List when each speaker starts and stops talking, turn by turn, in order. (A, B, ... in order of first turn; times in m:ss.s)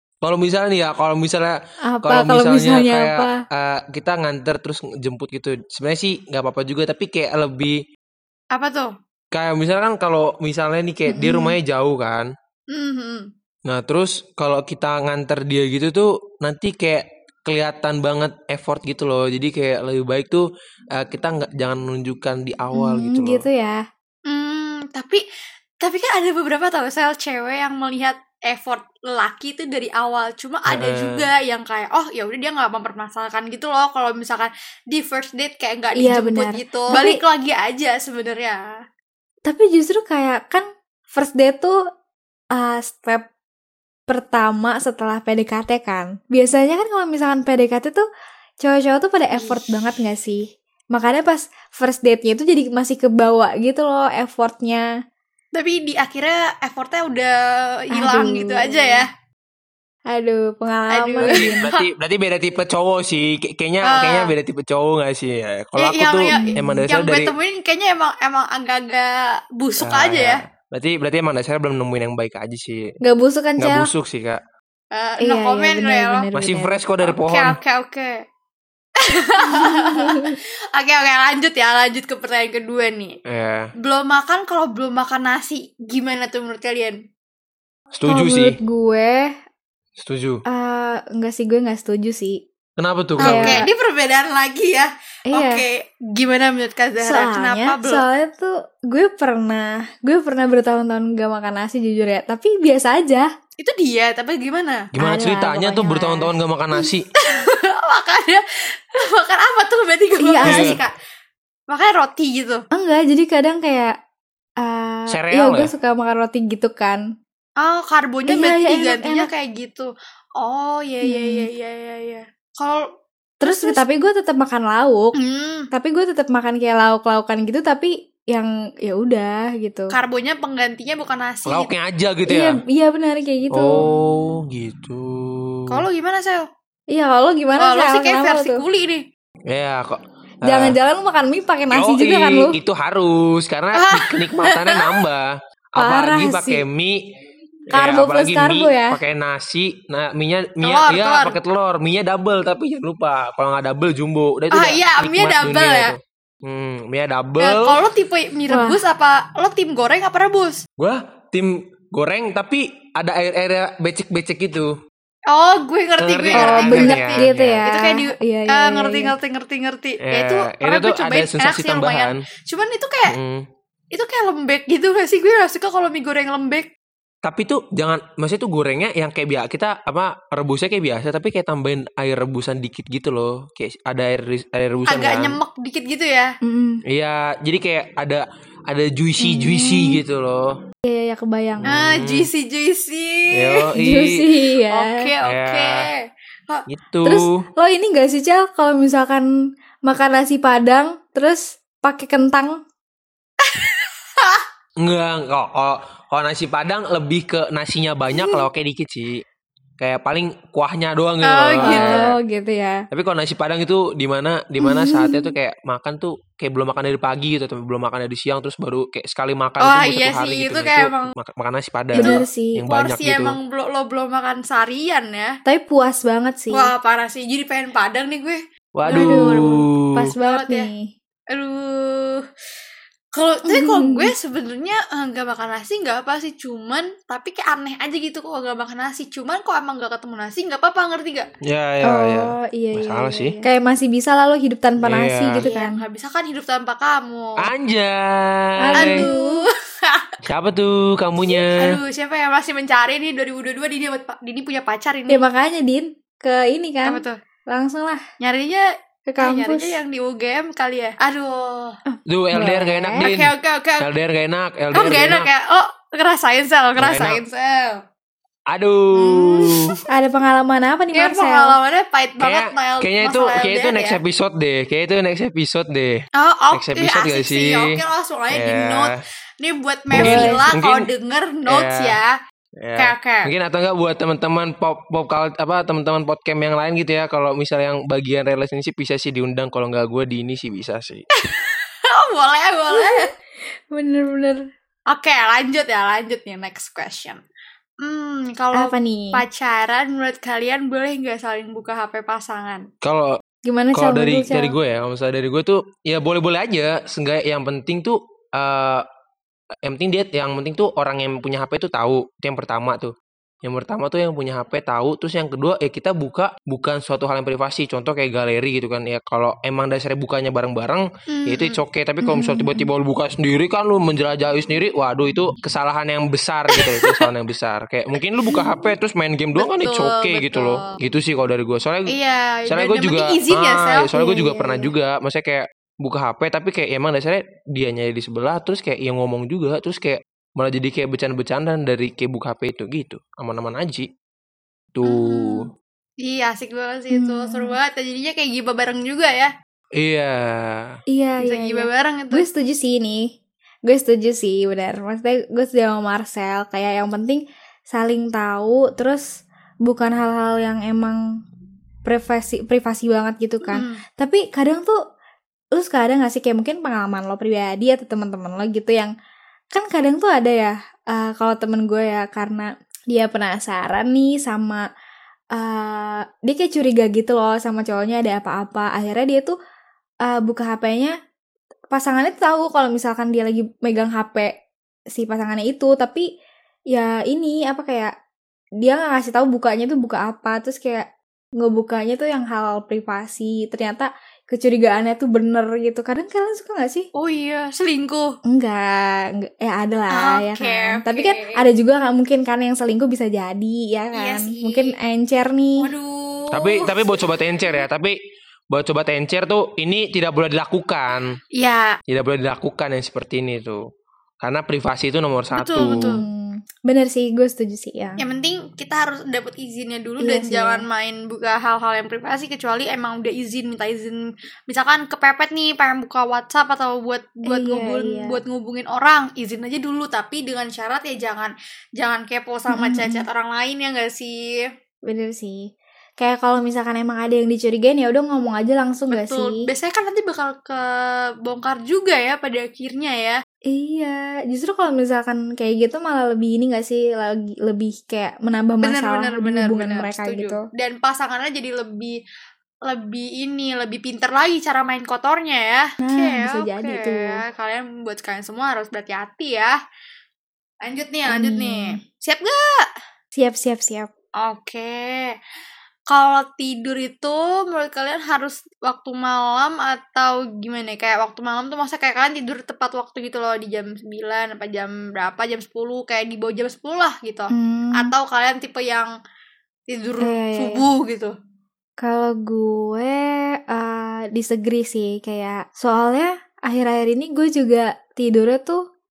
0:00.2-0:07.8 A
0:01.8-0:03.4 B
0:08.5-0:08.9 C
0:09.3-0:12.3 A
0:11.1-0:11.6 B
0:12.7-0:13.3 C
0:13.7-0:20.4 A
0:21.0-0:23.4 A
0:22.7-0:23.8 B
0:24.3-0:25.2 C
0:25.8-0:38.6 C
0:30.7-0:31.3 A
0:36.0-0:37.2 B
0:39.4-0:41.7 B
0:42.6-0:43.3 B
0:44.1-0:48.0 B
0:48.6-0:54.8 B
0:49.3-0:50.0 C
0:55.5-0:59.1 C
0:57.9-0:59.0 B
1:00.1-1:01.6 B
1:00.9-1:01.8 C
1:01.2-1:07.3 A
1:03.8-1:04.3 C
1:05.8-1:10.4 C
1:06.3-1:06.8 B
1:09.8-1:12.8 A
1:13.0-1:13.9 B
1:13.6-1:14.4 A
1:14.9-1:16.2 C
1:15.2-1:16.8 B
1:16.3-1:17.6 A
1:17.0-1:18.2 C
1:19.0-1:23.1 C
1:19.4-1:20.3 B
1:23.2-1:23.7 A
1:23.8-1:27.0 C
1:27.9-1:28.6 A
1:28.1-1:29.3 B
1:30.0-1:30.4 A
1:30.5-1:32.4 B
1:32.8-1:33.6 A
1:33.2-1:38.0 C
1:33.2-1:33.6 B
1:35.3-1:35.6 B
1:37.0-1:43.3 B
1:43.6-1:44.9 C
1:44.9-1:47.0 A
1:45.0-1:46.3 B
1:46.8-1:50.9 C
1:50.2-1:50.7 B
1:50.4-1:50.8 A
1:51.7-1:52.6 C
1:52.7-1:54.0 B
1:54.6-1:57.0 B
1:55.1-1:55.7 A
1:57.6-2:02.8 C
1:58.3-1:59.3 B
2:01.0-2:01.5 B
2:03.4-2:05.1 B
2:03.4-2:03.8 C
2:05.2-2:05.7 C
2:05.7-2:09.9 B
2:09.9-2:11.7 C
2:11.4-2:12.6 A
2:12.3-2:13.8 B
2:13.5-2:15.8 A
2:15.7-2:16.4 C
2:16.9-2:18.6 B
2:17.6-2:19.0 C
2:19.5-2:20.8 A
2:20.4-2:22.6 B
2:21.7-2:27.0 A
2:23.7-2:24.8 C
2:25.8-2:26.6 B
2:27.7-2:37.8 A
2:27.7-2:29.0 B
2:30.6-2:31.4 C
2:34.5-2:35.9 C
2:37.4-2:40.6 C
2:38.5-2:38.8 B
2:40.8-2:44.7 A
2:45.3-2:53.1 C
2:46.0-2:47.6 A
2:46.3-2:49.1 B
2:50.0-2:52.2 A
2:53.1-2:53.4 A
2:53.9-2:56.7 C
2:57.2-3:05.4 A
3:04.9-3:06.3 C
3:06.4-3:06.8 B
3:06.9-3:10.5 A
3:09.2-3:10.0 B
3:10.8-3:11.7 B
3:11.6-3:12.3 A
3:11.7-3:13.6 C
3:13.3-3:14.2 A
3:13.8-3:15.0 B
3:14.7-3:16.6 C
3:15.2-3:15.8 A
3:16.7-3:17.3 A
3:17.0-3:19.3 B
3:19.8-3:22.6 B
3:23.4-3:24.4 C
3:24.8-3:29.2 A
3:29.8-3:32.1 A
3:31.2-3:32.1 C
3:31.6-3:32.8 B
3:32.9-3:43.4 A
3:34.6-3:35.3 B
3:39.6-3:41.1 C
3:41.9-3:42.6 B
3:42.0-3:45.3 C
3:45.4-3:46.7 B
3:46.5-3:49.6 C
3:48.7-3:50.0 A
3:48.9-3:50.9 B
3:50.2-3:50.7 C
3:51.3-3:52.2 C
3:53.1-4:01.3 C
3:53.5-3:54.1 B
4:01.4-4:03.4 A
4:01.8-4:05.8 B
4:04.8-4:05.5 A
4:05.4-4:07.4 C
4:07.4-4:09.1 A
4:08.6-4:09.4 B
4:08.8-4:10.1 C
4:10.3-4:11.8 A
4:11.3-4:15.2 C
4:15.1-4:18.0 B
4:16.8-4:17.2 C
4:18.2-4:18.6 C
4:19.1-4:19.8 B
4:19.2-4:21.8 C
4:21.9-4:23.1 B
4:22.1-4:25.3 A
4:23.0-4:23.9 C
4:24.7-4:27.8 C
4:26.8-4:27.2 A
4:28.5-4:29.7 A
4:28.9-4:29.8 C
4:29.9-4:31.6 B
4:30.9-4:34.0 C
4:32.2-4:36.0 A
4:36.2-4:42.1 C
4:36.5-4:37.6 A
4:38.3-4:38.9 A
4:40.0-4:40.9 A
4:40.0-4:40.5 B
4:41.4-4:42.0 A
4:42.6-4:51.0 A
4:42.8-4:43.3 C
4:51.4-4:53.1 C
4:52.7-4:53.1 B
4:53.7-4:54.4 B
4:54.9-4:57.2 C
4:57.8-5:02.6 C
4:58.5-4:59.2 B
5:02.8-5:03.2 A
5:03.5-5:04.5 B
5:03.7-5:08.8 A
5:09.6-5:12.9 A
5:13.4-5:32.0 A
5:21.1-5:21.6 C
5:22.0-5:22.7 B
5:26.5-5:27.0 C
5:28.2-5:28.6 C
5:29.4-5:30.7 C
5:31.9-5:33.9 C
5:32.5-5:43.9 A
5:33.9-5:34.7 B
5:44.7-5:45.4 A
5:44.8-5:45.5 C
5:46.0-5:49.3 C
5:46.9-5:47.6 B
5:49.8-5:50.7 A
5:50.9-5:53.1 B
5:51.2-5:52.3 C
5:53.7-5:59.0 B
5:59.6-6:01.0 B
6:01.8-6:04.8 B
6:03.4-6:03.8 C
6:05.5-6:08.9 B
6:09.5-6:14.6 B
6:15.3-6:19.3 B
6:20.0-6:20.9 B
6:21.7-6:24.3 B
6:24.9-6:26.0 B
6:26.7-6:27.9 B
6:28.6-6:36.9 B
6:37.0-6:38.1 C
6:38.3-6:45.7 B
6:39.9-6:41.5 C
6:43.9-6:44.7 C
6:45.6-6:47.6 C
6:46.3-6:48.0 A
6:48.5-6:51.1 A
6:51.4-6:51.8 C
6:51.9-6:53.6 A
6:54.2-6:56.0 A
6:55.3-6:56.0 C
6:55.6-6:58.0 B
6:58.0-7:14.4 C
7:00.0-7:00.6 B
7:07.2-7:08.2 B
7:12.5-7:13.0 B
7:14.9-7:15.4 B
7:16.0-7:19.4 B
7:18.9-7:20.7 C
7:21.2-7:23.2 C
7:23.5-7:30.4 B
7:28.6-7:32.0 C
7:32.7-7:39.5 C
7:35.8-7:37.2 B
7:40.6-7:42.6 C
7:41.1-7:41.8 B
7:43.1-7:43.9 B
7:44.2-7:45.1 C
7:45.9-7:58.9 C
7:57.3-7:57.9 B
7:59.7-8:01.1 C
8:00.0-8:00.6 B
8:01.8-8:08.6 B